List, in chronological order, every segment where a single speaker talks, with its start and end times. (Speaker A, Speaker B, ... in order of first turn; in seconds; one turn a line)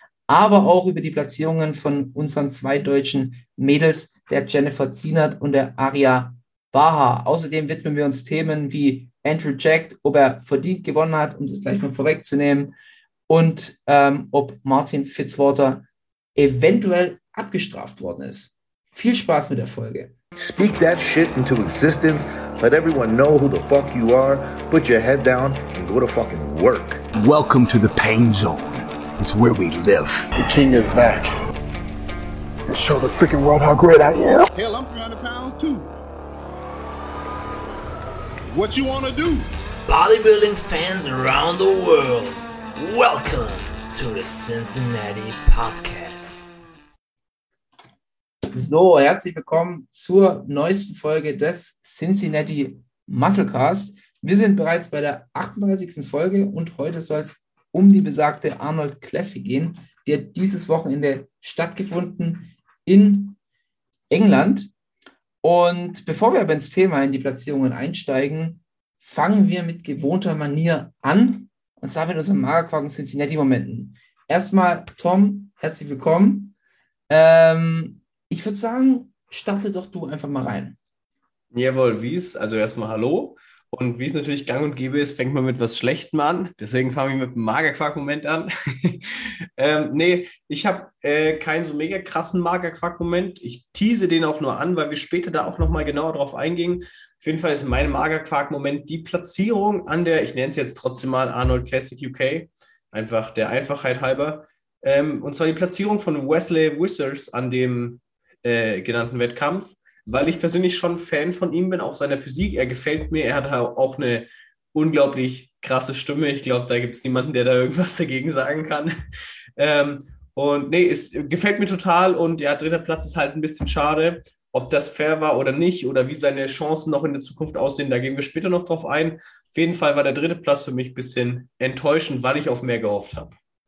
Speaker A: 0.3-12.7
Speaker A: 13.3-15.8
Speaker A: 16.4-20.1
Speaker B: 20.4-27.1
Speaker C: 27.1-30.3
Speaker D: 30.4-31.3
Speaker D: 32.7-34.5
Speaker E: 34.5-35.9
Speaker E: 38.5-39.5
Speaker F: 39.9-46.5
Speaker A: 48.5-63.4
Speaker A: 64.1-64.7
Speaker A: 65.4-76.5
Speaker A: 77.1-80.8
Speaker G: 81.5-118.9
Speaker G: 119.6-133.3